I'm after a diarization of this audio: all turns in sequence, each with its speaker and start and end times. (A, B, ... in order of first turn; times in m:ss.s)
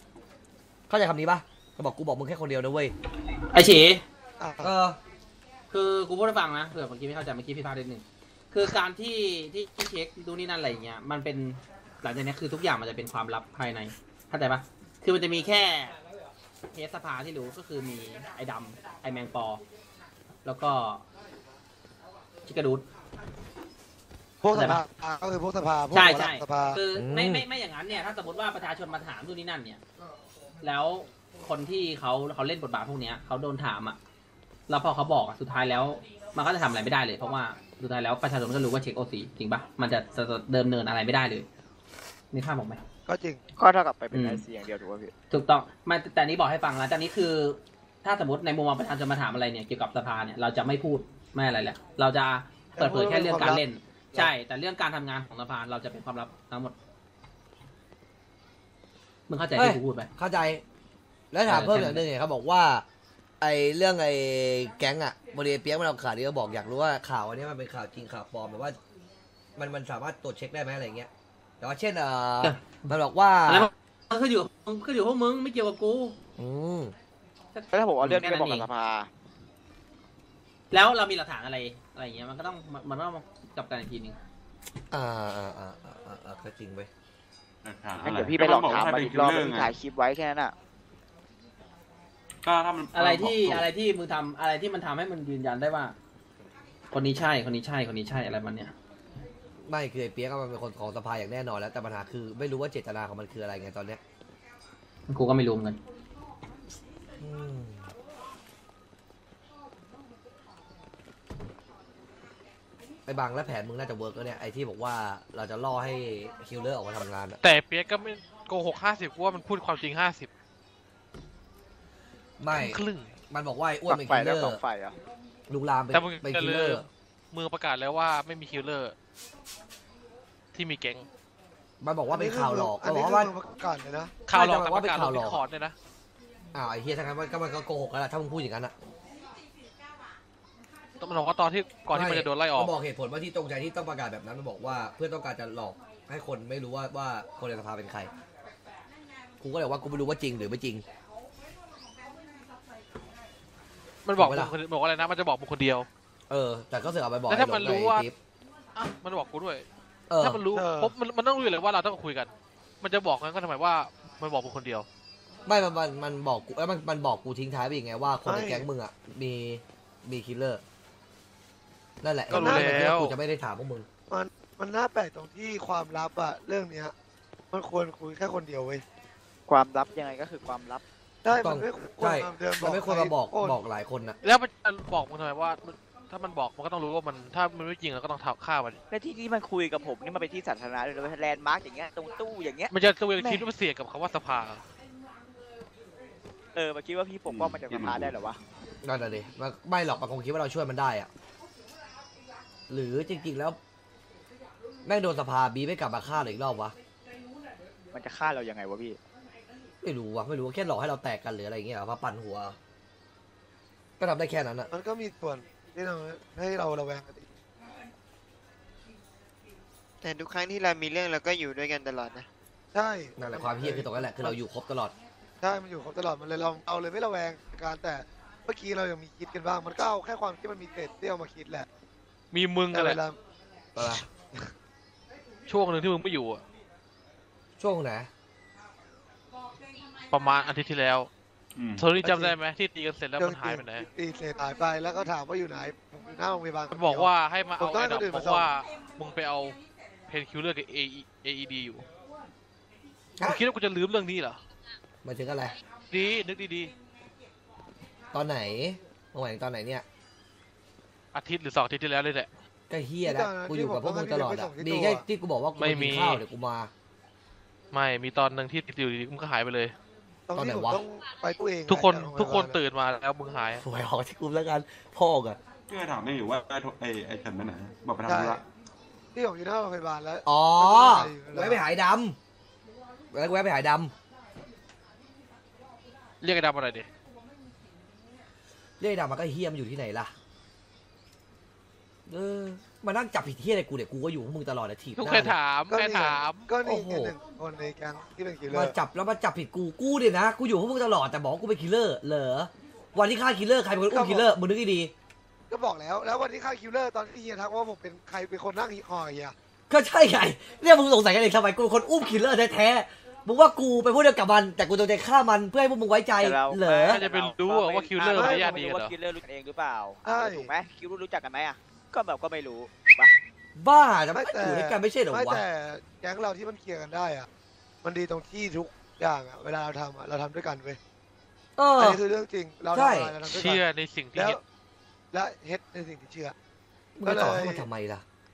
0:00.9-0:02.9 A
0:03.5-0:04.0 B
0:04.4-0:04.7 C
0:04.6-0:05.0 A
0:05.7-0:16.0 B
0:16.7-0:19.6 B
0:20.4-0:21.0 B
0:22.4-0:22.8 B
0:24.4-0:26.8 C
0:24.5-0:24.8 B
0:25.9-0:29.8 B
0:26.9-0:27.4 A
0:30.6-0:34.0 B
0:34.7-0:41.5 B
0:42.3-0:42.8 B
0:43.1-0:43.4 C
0:43.6-0:45.1 D
0:44.1-0:44.4 B
0:45.3-0:56.7 B
0:52.7-0:53.6 C
0:59.3-1:00.1 B
0:59.6-1:00.6 A
1:01.3-1:02.8 A
1:01.4-1:02.0 B
1:03.4-1:08.8 A
1:09.6-1:11.1 A
1:11.6-1:13.7 A
1:12.4-1:12.9 B
1:13.5-1:16.2 B
1:16.4-1:16.9 A
1:17.5-1:18.7 B
1:17.7-1:19.1 D
1:20.7-1:24.2 B
1:24.9-1:26.9 A
1:27.6-1:29.7 E
1:28.0-1:30.5 D
1:32.4-1:33.7 E
1:32.9-1:36.0 B
1:36.9-1:38.7 B
1:39.7-1:44.0 A
1:45.1-1:45.8 B
1:47.2-1:47.9 A
1:53.1-1:57.4 A
1:57.4-2:00.3 F
2:02.4-2:04.6 A
2:02.5-2:03.1 F
2:03.9-2:05.0 D
2:05.5-2:06.8 A
2:05.9-2:08.9 F
2:10.5-2:11.1 F
2:11.8-2:13.3 A
2:12.1-2:14.1 C
2:14.3-2:15.7 F
2:14.3-2:15.4 A
2:16.5-2:18.7 A
2:21.0-2:22.7 F
2:21.9-2:28.1 A
2:29.4-2:30.8 A
2:34.0-2:35.9 F
2:34.2-2:34.5 A
2:36.3-2:38.1 A
2:37.3-2:38.0 F
2:38.7-2:39.6 F
2:40.1-2:40.4 A
2:40.2-2:44.9 F
2:40.5-2:40.9 C
2:45.4-2:50.6 A
2:48.2-2:48.7 C
2:52.0-2:53.9 A
2:52.3-2:53.2 F
2:52.3-2:52.8 C
2:54.1-2:56.9 C
2:57.5-2:58.8 C
2:59.5-3:00.8 D
3:01.2-3:03.6 C
3:01.3-3:04.2 A
3:04.2-3:08.8 F
3:08.9-3:13.5 D
3:12.7-3:14.6 F
3:16.5-3:18.4 D
3:17.2-3:18.2 E
3:18.8-3:21.1 A
3:22.7-3:23.6 A
3:24.8-3:26.7 A
3:27.9-3:29.0 D
3:29.8-3:32.6 A
3:34.0-3:34.7 A
3:34.7-3:37.3 C
3:40.0-3:42.3 G
3:42.7-3:44.4 C
3:43.2-3:44.9 A
3:45.4-3:51.7 C
3:52.3-3:53.0 F
3:52.7-3:53.2 C
3:53.8-3:54.0 A
3:53.8-3:54.5 C
3:55.5-3:56.4 F
3:57.6-3:58.1 A
4:00.1-4:01.1 F
4:01.6-4:01.9 E
4:01.8-4:03.9 F
4:02.0-4:02.4 C
4:03.2-4:08.5 C
4:06.7-4:09.6 F
4:10.1-4:11.8 F
4:13.2-4:14.4 F
4:15.0-4:15.6 A
4:15.9-4:16.7 F
4:18.1-4:19.8 A
4:21.1-4:22.3 F
4:22.7-4:26.7 A
4:23.0-4:25.0 C
4:25.6-4:26.2 F
4:27.7-4:29.7 F
4:30.3-4:32.6 C
4:30.3-4:30.8 A
4:31.7-4:33.6 F
4:33.6-4:35.4 A
4:35.7-4:38.4 E
4:38.0-4:38.4 C
4:39.1-4:41.6 C
4:40.2-4:42.2 A
4:43.1-4:43.9 A
4:46.2-4:46.9 F
4:48.8-4:50.1 A
4:52.1-4:55.4 A
4:55.0-4:56.5 F
4:55.7-4:58.8 C
4:56.6-4:57.1 A
4:58.5-5:04.9 A
5:03.9-5:04.3 C
5:05.5-5:09.3 C
5:09.7-5:17.0 A
5:16.2-5:23.1 D
5:16.8-5:18.9 F
5:18.1-5:18.5 C
5:20.0-5:20.5 C
5:23.6-5:25.4 A
5:24.1-5:27.3 C
5:27.8-5:30.8 C
5:31.6-5:32.0 A
5:31.8-5:33.6 C
5:32.7-5:33.1 A
5:33.2-5:34.4 F
5:34.1-5:34.4 C
5:35.1-5:36.3 C
5:37.0-5:38.0 A
5:37.0-5:37.6 C